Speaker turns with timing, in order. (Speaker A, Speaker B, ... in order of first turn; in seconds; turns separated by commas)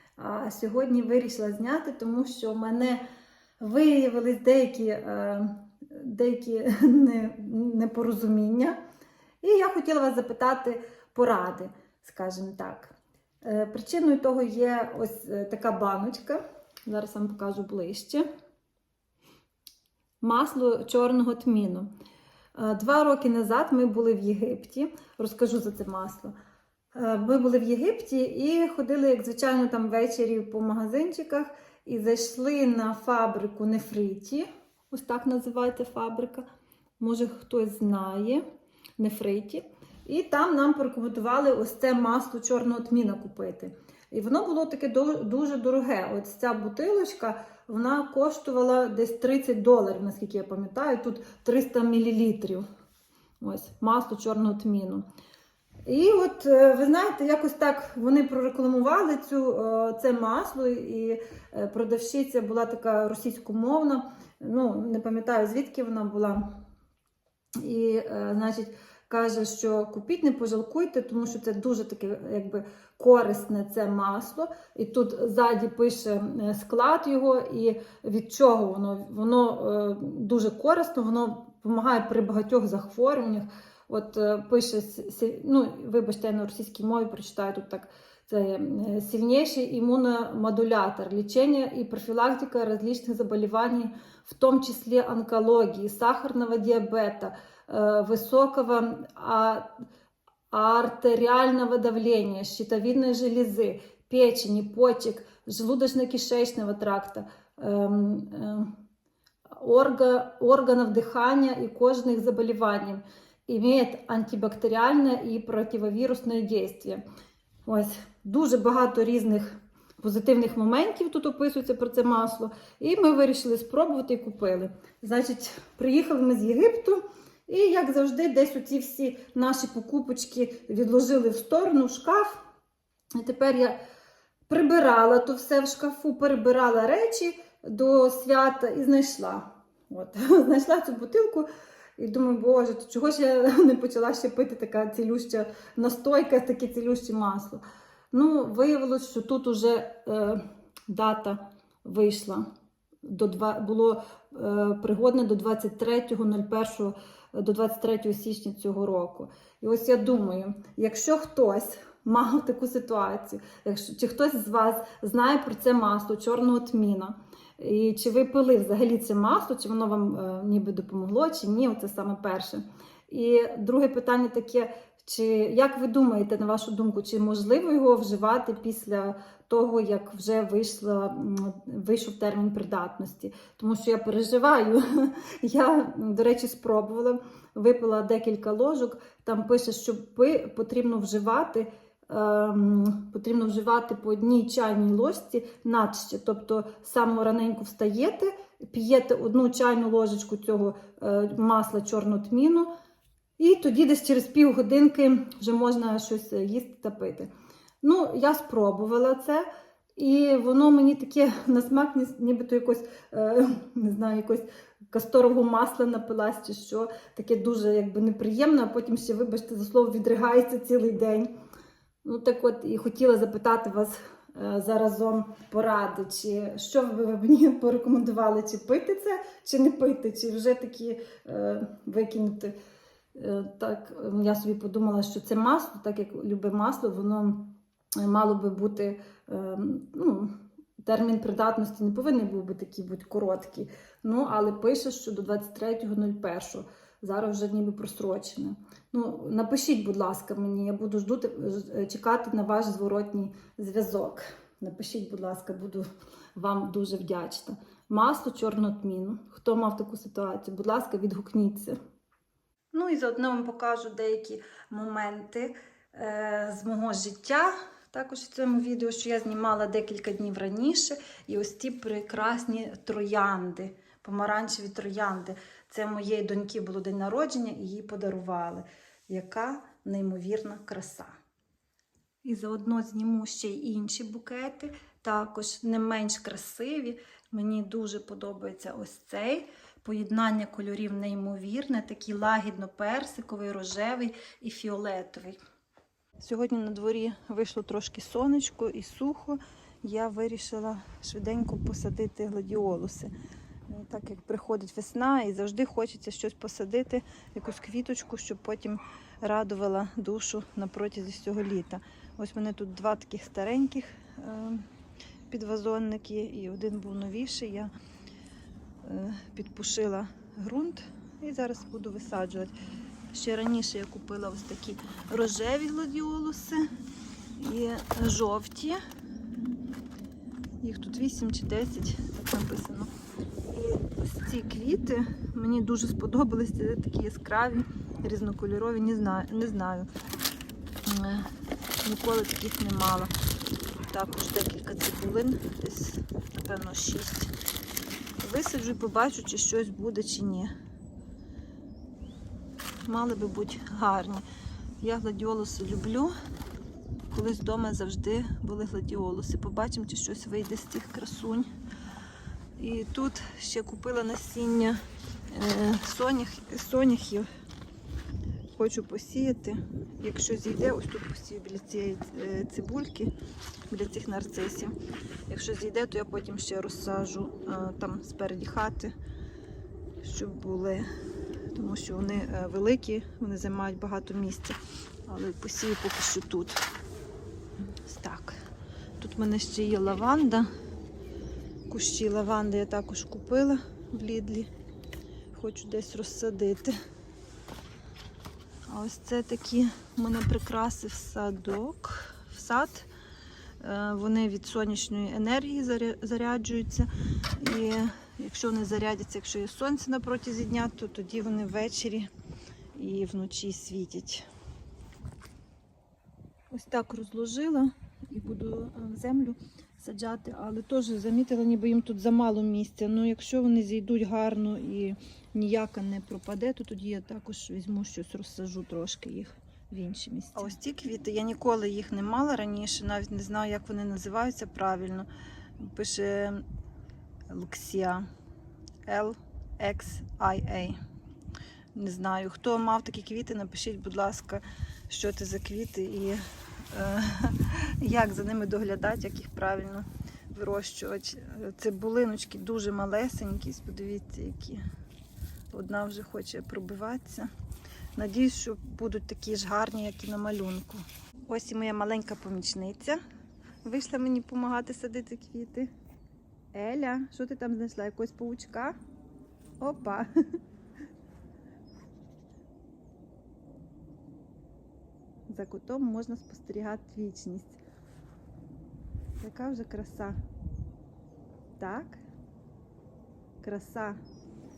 Speaker A: 0.2-3.0, Speaker A: 3.6-8.8, Speaker A: 9.4-18.2, Speaker A: 20.2-21.9, Speaker A: 22.6-26.3, Speaker A: 26.9-36.5, Speaker A: 37.0-38.4, Speaker A: 39.0-52.6, Speaker A: 53.4-55.0, Speaker A: 55.9-66.5, Speaker A: 67.6-99.8, Speaker A: 100.5-108.8, Speaker A: 109.5-117.0, Speaker A: 117.7-132.4, Speaker A: 133.2-133.8, Speaker A: 134.5-152.5, Speaker A: 153.0-202.7, Speaker A: 203.4-207.3, Speaker A: 207.8-209.5, Speaker A: 210.0-221.3, Speaker A: 222.1-232.6, Speaker A: 233.2-261.8, Speaker A: 262.7-281.1, Speaker A: 282.2-295.4, Speaker A: 296.2-303.1, Speaker A: 303.7-314.7, Speaker A: 315.3-317.7, Speaker A: 318.8-322.6, Speaker A: 323.1-326.7, Speaker A: 327.4-328.8, Speaker A: 330.6-332.9, Speaker A: 333.5-339.9, Speaker A: 340.9-341.3, Speaker A: 341.8-343.1, Speaker A: 343.9-347.3, Speaker A: 348.2-350.5, Speaker A: 352.9-354.2, Speaker A: 354.8-356.1, Speaker A: 357.1-361.5, Speaker A: 362.6-367.3, Speaker A: 368.5-373.1, Speaker A: 373.7-374.8, Speaker A: 375.3-378.9, Speaker A: 380.0-380.9, Speaker A: 381.5-386.6, Speaker A: 387.8-388.4, Speaker A: 389.0-390.5, Speaker A: 391.7-394.5, Speaker A: 395.3-396.8, Speaker A: 398.7-402.9, Speaker A: 403.6-412.1, Speaker A: 412.8-414.3, Speaker A: 416.5-435.1, Speaker A: 435.6-436.4, Speaker A: 437.3-438.1, Speaker A: 438.9-440.8, Speaker A: 441.8-454.6, Speaker A: 455.5-457.3, Speaker A: 458.0-463.0, Speaker A: 463.6-465.7, Speaker A: 466.5-468.8, Speaker A: 469.6-470.1, Speaker A: 475.3-477.6, Speaker A: 479.2-480.2, Speaker A: 481.6-482.0, Speaker A: 483.4-484.0